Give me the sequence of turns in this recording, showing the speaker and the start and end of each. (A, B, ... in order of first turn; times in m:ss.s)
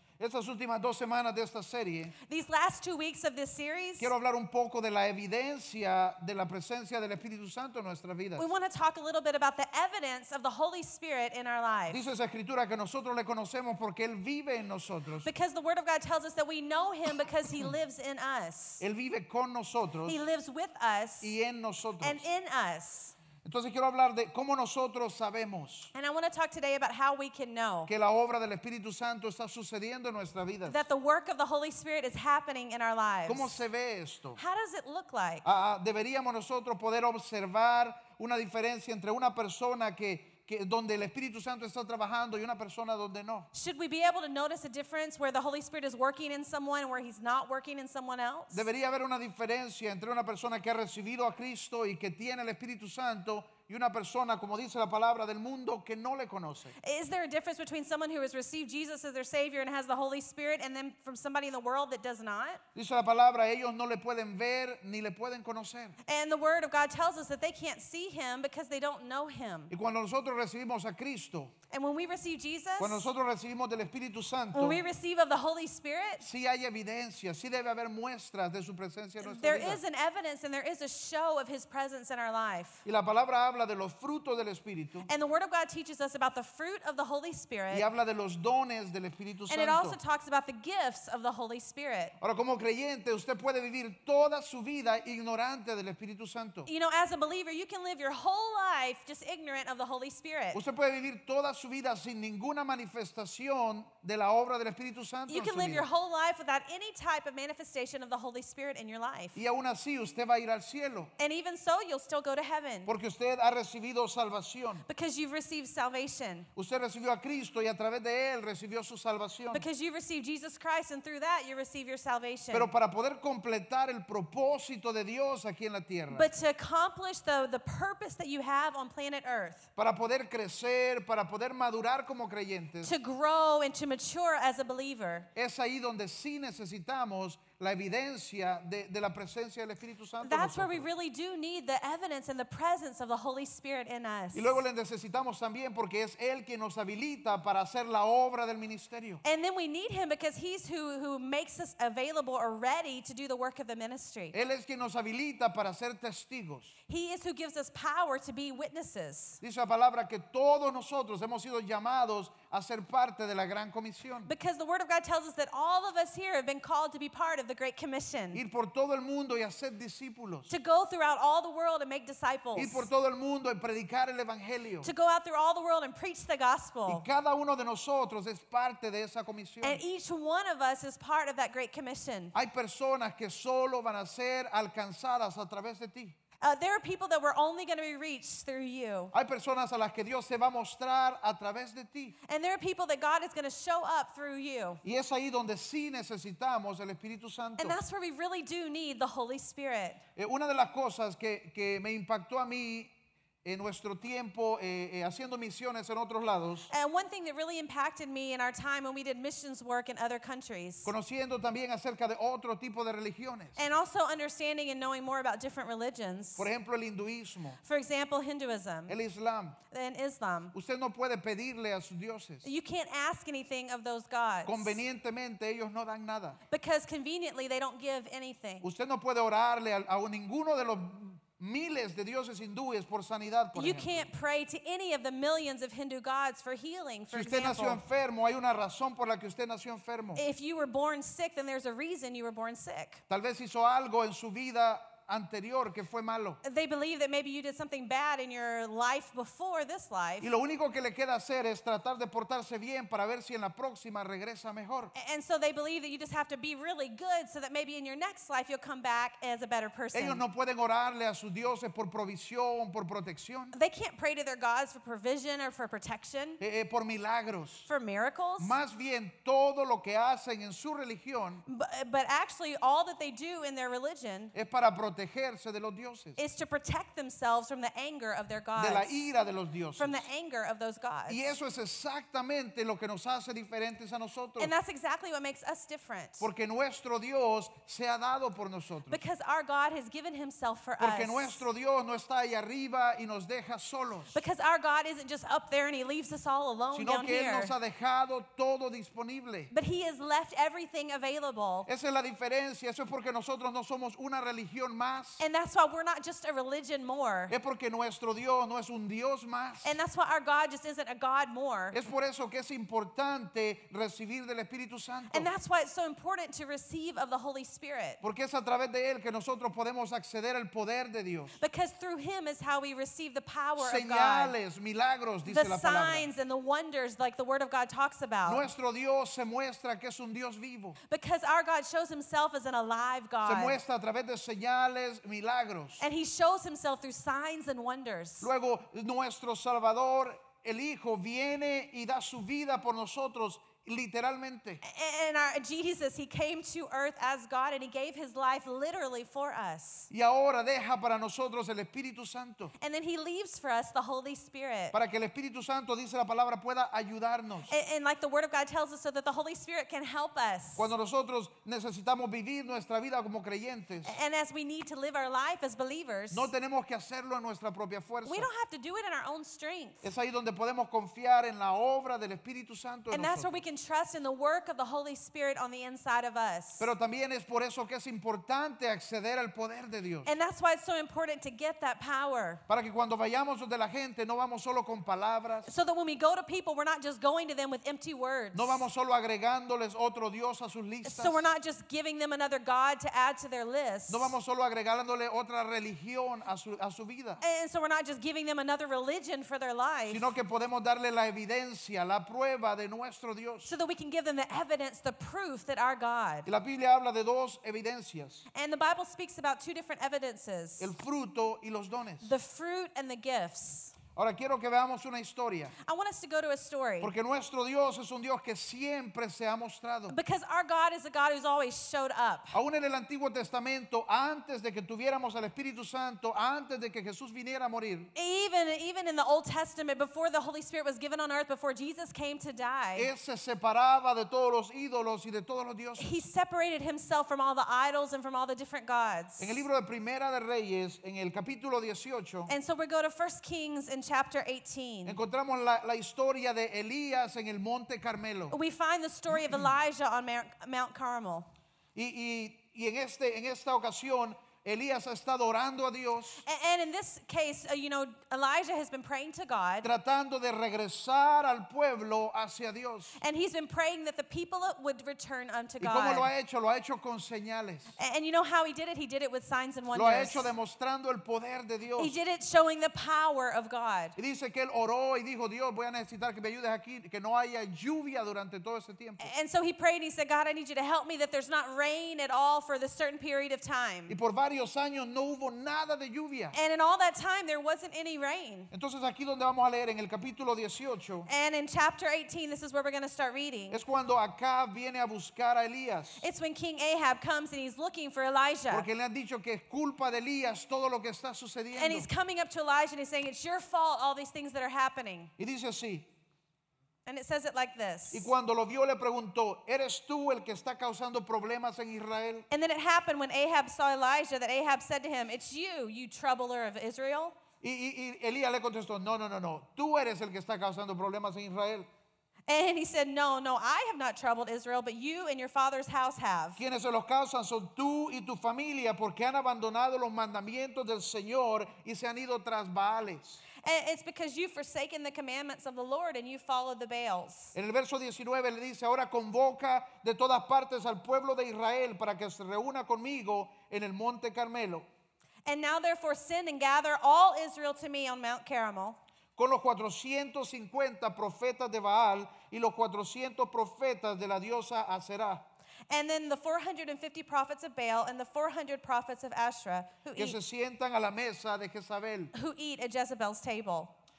0:00.2-0:02.1 A
0:02.2-0:04.1 B
0:04.0-0:08.5 A
0:08.4-0:12.0 B
0:11.9-0:15.3 A
0:15.2-0:18.8 B
0:18.8-0:20.2 A
0:20.0-0:21.3 B
0:21.2-0:22.2 A
0:22.0-0:23.1 B
0:23.4-0:25.9 A
0:25.9-0:27.9 B
0:27.9-0:30.8 A
0:30.7-0:33.6 B
0:33.3-0:34.4 A
0:34.4-0:35.4 B
0:35.4-0:43.5 A
0:43.5-0:48.6 B
0:48.5-0:56.7 A
0:56.8-1:02.6 B
1:02.7-1:06.0 A
1:06.0-1:09.7 B
1:09.7-1:11.5 A
1:11.7-1:13.1 B
1:12.8-1:14.8 A
1:14.5-1:16.2 B
1:16.2-1:19.8 A
1:19.2-1:22.8 B
1:22.8-1:25.1 A
1:25.1-1:27.8 B
1:27.7-1:30.0 A
1:29.5-1:32.1 B
1:32.2-1:36.7 A
1:36.7-1:40.6 B
1:40.5-1:45.8 A
1:45.3-1:49.4 B
1:49.3-1:51.1 A
1:51.2-1:52.9 B
1:52.8-1:54.8 A
1:54.9-1:56.5 B
1:56.6-1:59.6 A
1:59.5-2:02.7 B
2:02.5-2:06.3 A
2:06.1-2:09.7 B
2:09.8-2:12.9 A
2:12.8-2:15.3 B
2:15.3-2:20.9 A
2:20.2-2:24.6 B
2:24.3-2:29.2 A
2:29.2-2:34.3 B
2:34.3-2:36.7 A
2:36.9-2:39.4 B
2:39.4-2:44.3 A
2:44.2-2:48.4 B
2:48.3-2:50.5 A
2:50.5-2:52.9 B
2:52.6-2:54.9 A
2:54.8-2:57.0 B
2:56.9-2:59.8 A
2:59.6-3:02.3 B
3:02.3-3:06.2 A
3:06.4-3:09.1 B
3:09.1-3:12.1 A
3:12.2-3:14.8 B
3:14.8-3:17.8 A
3:17.6-3:20.0 B
3:20.2-3:22.9 A
3:23.4-3:26.7 A
3:26.7-3:30.9 B
3:30.8-3:33.6 A
3:33.6-3:36.5 B
3:36.4-3:37.6 A
3:37.6-3:39.0 B
3:38.9-3:39.6 A
3:39.7-3:40.5 B
3:40.5-3:42.5 A
3:42.4-3:44.8 B
3:44.4-3:46.4 A
3:46.5-3:48.7 B
3:48.6-3:54.0 A
3:53.5-3:57.8 B
3:57.1-4:00.2 A
4:00.2-4:03.0 B
4:03.1-4:06.4 A
4:06.4-4:10.3 B
4:10.2-4:14.9 A
4:14.9-4:20.2 B
4:19.9-4:23.5 A
4:23.5-4:26.4 B
4:26.4-4:27.7 A
4:27.7-4:28.5 B
4:28.4-4:31.4 A
4:31.5-4:34.3 B
4:34.3-4:36.2 A
4:36.2-4:39.1 B
4:38.6-4:40.0 A
4:39.8-4:41.4 B
4:41.1-4:44.5 A
4:44.4-4:46.3 B
4:46.2-4:49.0 A
4:48.9-4:51.4 B
4:50.8-4:54.2 A
4:54.1-4:57.5 B
4:56.7-4:59.5 A
4:59.5-5:01.7 B
5:01.6-5:05.2 A
5:05.2-5:07.3 B
5:07.3-5:09.8 A
5:09.6-5:11.8 B
5:11.7-5:15.3 A
5:15.1-5:18.0 B
5:18.0-5:21.4 A
5:21.4-5:24.4 B
5:23.6-5:26.1 A
5:25.2-5:28.4 B
5:28.2-5:30.8 A
5:30.8-5:33.6 B
5:33.2-5:35.8 A
5:35.8-5:38.3 B
5:38.2-5:44.6 A
5:44.6-5:49.9 B
5:49.9-5:52.5 A
5:52.6-5:54.7 B
5:54.7-5:57.5 A
5:57.5-6:00.7 B
6:00.6-6:03.9 A
6:03.8-6:06.3 B
6:06.1-6:08.3 A
6:08.0-6:09.9 B
6:09.8-6:13.4 A
6:12.9-6:16.7 B
6:16.6-6:20.1 A
6:20.0-6:22.4 B
6:22.5-6:25.5 A
6:25.4-6:28.6 B
6:28.3-6:31.2 A
6:30.8-6:34.1 B
6:33.9-6:37.2 A
6:37.2-6:40.1 B
6:39.9-6:43.5 A
6:43.4-6:46.3 B
6:46.2-6:48.2 A
6:48.3-6:50.7 B
6:50.6-6:52.1 A
6:52.0-6:53.8 B
6:53.9-6:55.5 A
6:55.6-6:56.9 B
6:56.8-7:00.0 A
6:59.9-7:02.4 B
7:02.3-7:07.9 A
7:07.9-7:12.9 B
7:12.8-7:16.0 A
7:15.8-7:19.4 B
7:19.2-7:22.3 A
7:22.3-7:25.0 B
7:24.8-7:28.3 A
7:28.3-7:31.3 B
7:31.7-7:36.2 A
7:36.2-7:39.7 B
7:39.6-7:43.0 A
7:43.0-7:46.1 B
7:45.6-7:47.8 A
7:47.8-7:50.3 B
7:49.7-7:52.0 A
7:51.8-7:54.0 B
7:54.0-7:59.1 A
7:59.0-8:04.0 B
8:03.9-8:06.3 A
8:06.3-8:08.5 B
8:08.5-8:11.1 A
8:11.1-8:13.6 B
8:13.5-8:16.0 A
8:16.0-8:18.7 B
8:18.5-8:21.9 A
8:21.5-8:25.1 B
8:25.2-8:25.8 A
8:26.8-8:28.1 B
8:27.9-8:32.2 A
8:32.3-8:37.2 B
8:37.4-8:41.7 A
8:42.3-8:46.4 B
8:46.4-8:53.2 A
8:53.4-8:57.3 B
8:57.3-9:04.6 A
9:05.2-9:08.8 B
9:09.2-9:15.2 A
9:15.7-9:20.2 B
9:20.0-9:22.1 A
9:22.1-9:23.7 B